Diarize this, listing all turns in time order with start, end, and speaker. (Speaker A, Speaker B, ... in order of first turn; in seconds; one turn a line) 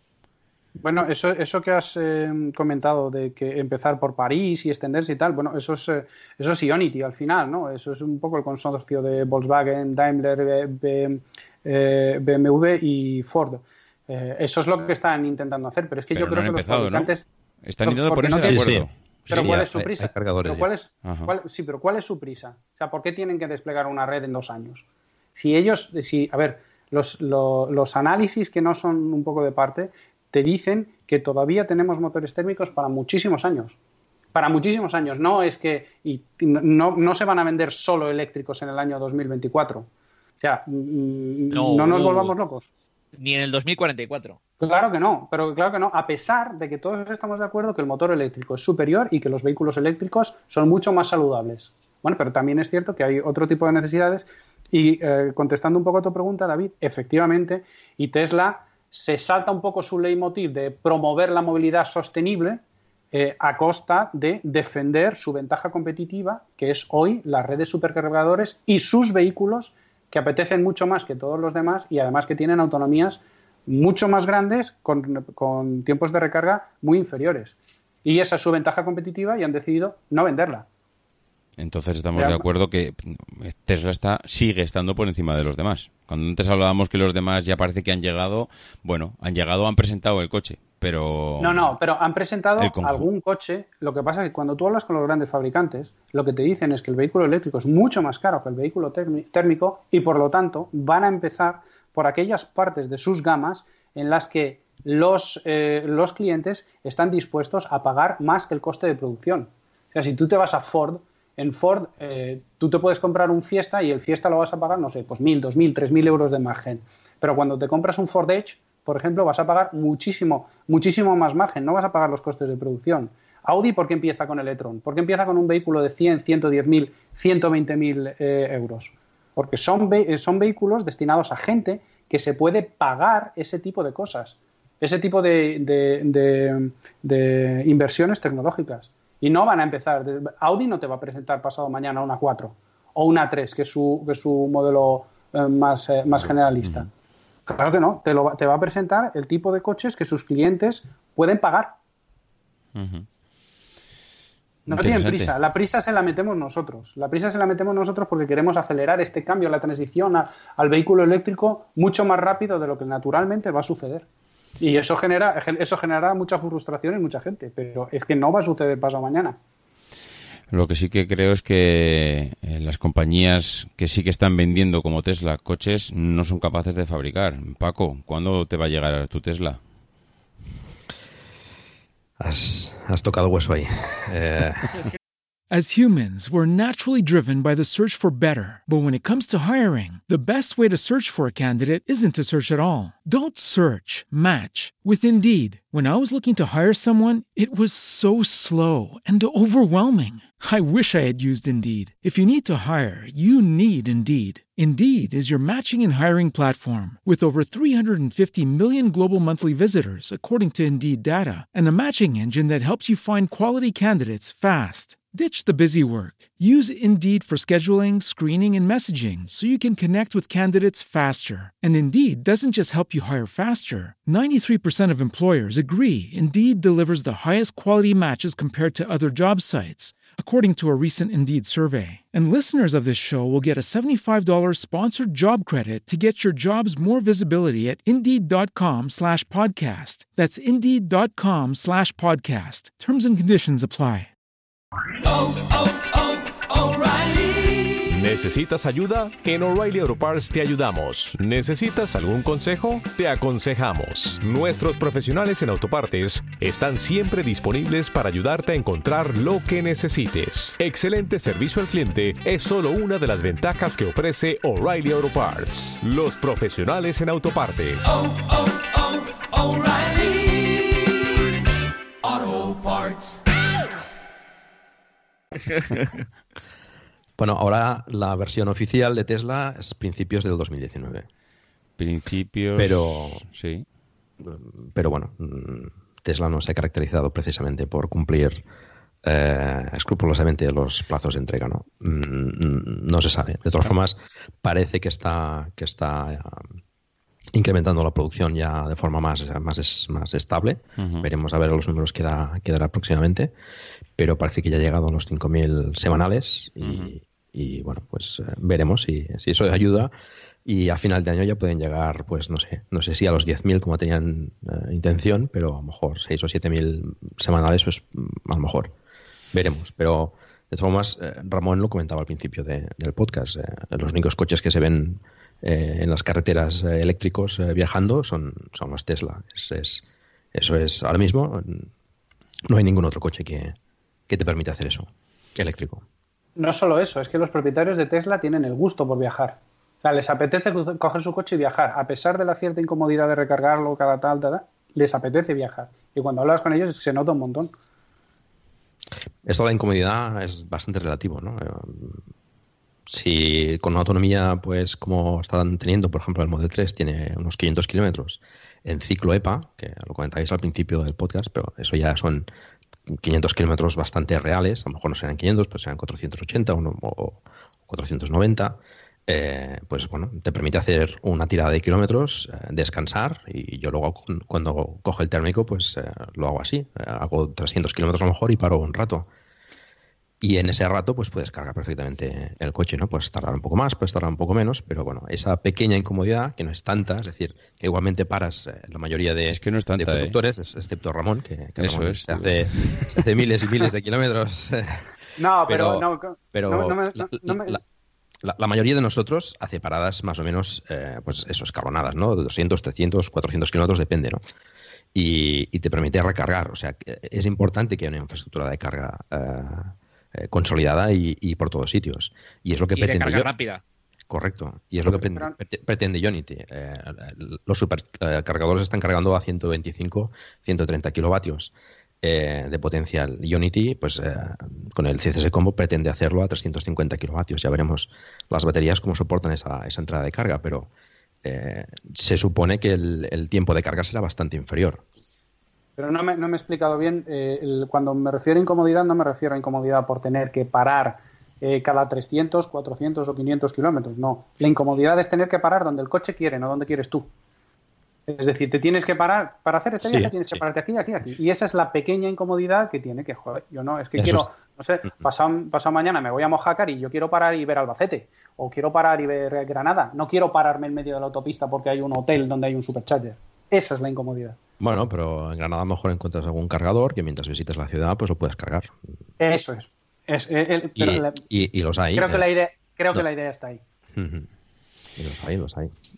Speaker A: 0.8-17.2
Speaker B: 16.1-17.1
Speaker B: 17.7-19.6
Speaker A: 17.9-18.6
Speaker C: 18.4-20.7
Speaker A: 19.3-24.8
Speaker B: 21.0-21.3
Speaker A: 25.4-33.7
Speaker A: 34.3-39.9
Speaker A: 40.4-42.6
Speaker D: 41.5-42.3
Speaker D: 43.2-44.4
Speaker A: 44.6-62.6
Speaker A: 63.1-80.6
Speaker B: 81.6-91.7
Speaker A: 82.2-82.4
Speaker A: 91.4-146.9
Speaker B: 92.6-93.1
Speaker A: 147.5-151.7
Speaker B: 152.8-153.1
Speaker A: 154.7-164.1
Speaker B: 154.7-155.3
Speaker A: 164.6-169.4
Speaker B: 170.5-179.6
Speaker C: 182.2-184.8
Speaker E: 185.5-244.1
Speaker F: 247.8-268.2
Speaker C: 277.2-281.1
Speaker B: 281.8-283.7
Speaker C: 282.6-283.2
Speaker C: 284.2-288.4
Speaker C: 289.0-296.5
Speaker C: 297.3-303.3
Speaker B: 300.8-301.1
Speaker C: 304.0-309.9
Speaker B: 306.6-306.9
Speaker C: 310.4-318.7
Speaker C: 319.3-331.7
Speaker C: 332.5-333.6
Speaker C: 334.1-335.8
Speaker A: 336.4-347.5
Speaker C: 349.2-352.0
Speaker C: 352.9-362.3
Speaker C: 362.9-379.1
Speaker C: 380.2-394.9
Speaker B: 389.3-390.1
Speaker B: 391.6-393.0
Speaker A: 395.2-397.6
Speaker C: 395.5-397.6
Speaker C: 398.2-404.2
Speaker C: 404.9-413.3
Speaker D: 412.7-413.6
Speaker C: 414.1-430.7
Speaker A: 414.9-415.3
Speaker C: 431.2-434.8
Speaker A: 435.8-447.1
Speaker A: 448.1-464.4
Speaker C: 449.8-450.4
Speaker C: 453.9-454.3
Speaker C: 464.6-468.8
Speaker A: 469.2-471.2
Speaker C: 470.8-472.2
Speaker A: 471.9-473.6
Speaker C: 473.9-474.3
Speaker C: 475.0-475.7